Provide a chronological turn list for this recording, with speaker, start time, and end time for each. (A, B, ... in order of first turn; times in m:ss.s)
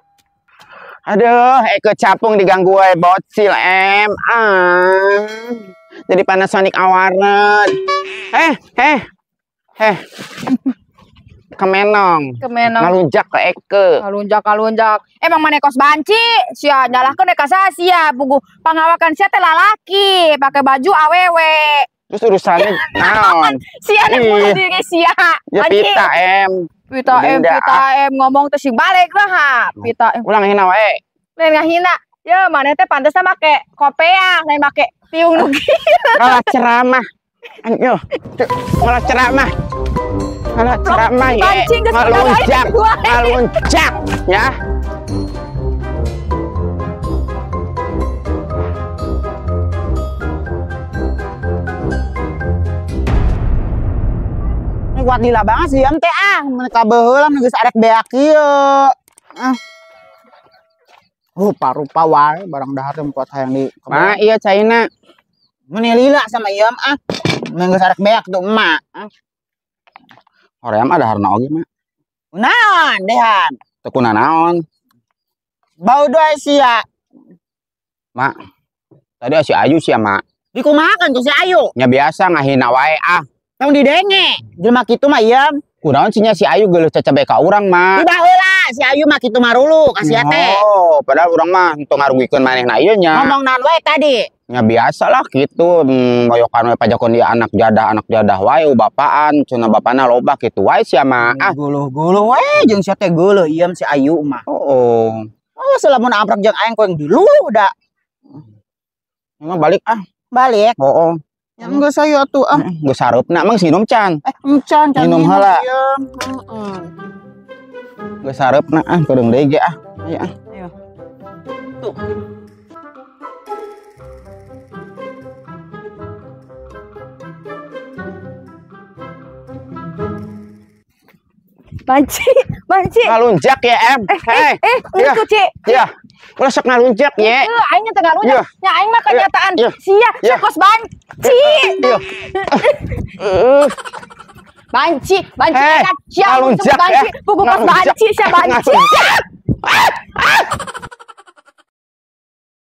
0:01.1-0:07.8 A
0:08.3-0:09.0 A
0:11.6-0:13.9 A
0:12.4-0:12.9 B
0:14.0-0:21.9 B
0:22.1-0:24.6 A
0:22.6-0:26.1 B
0:25.5-0:26.5 A
0:26.9-0:30.2 B
0:27.1-0:27.8 A
0:29.8-0:31.0 A
0:31.4-0:36.4 B
0:36.2-0:37.0 A
0:37.6-0:39.5 A
0:40.5-0:44.5 A
0:40.8-0:43.4 B
0:54.9-0:59.6 C
1:01.4-1:04.2 C
1:03.9-1:04.8 A
1:05.7-1:09.1 C
1:10.6-1:11.6 A
1:12.3-1:13.6 C
1:13.8-1:14.6 A
1:15.8-1:16.8 C
1:19.2-1:20.2 A
1:20.5-1:21.7 C
1:21.8-1:23.2 A
1:23.6-1:25.5 C
1:25.8-1:28.0 A
1:28.0-1:30.6 C
1:30.0-1:33.3 A
1:33.1-1:34.3 C
1:34.5-1:41.5 A
1:41.3-1:44.4 C
1:44.5-1:45.3 A
1:45.6-1:47.7 C
1:49.4-1:50.0 A
1:50.3-1:50.8 C
1:50.8-1:51.8 A
1:51.6-1:52.6 C
1:52.6-1:54.2 A
1:54.2-1:56.9 C
1:55.0-1:55.6 A
1:58.2-2:00.3 A
2:11.8-2:13.1 B
2:13.0-2:15.9 A
2:14.1-2:15.8 B
2:16.4-2:17.5 A
2:17.2-2:23.0 B
2:18.2-2:18.5 A
2:19.1-2:20.4 A
2:21.2-2:23.8 A
2:24.7-2:28.9 B
2:25.5-2:30.5 A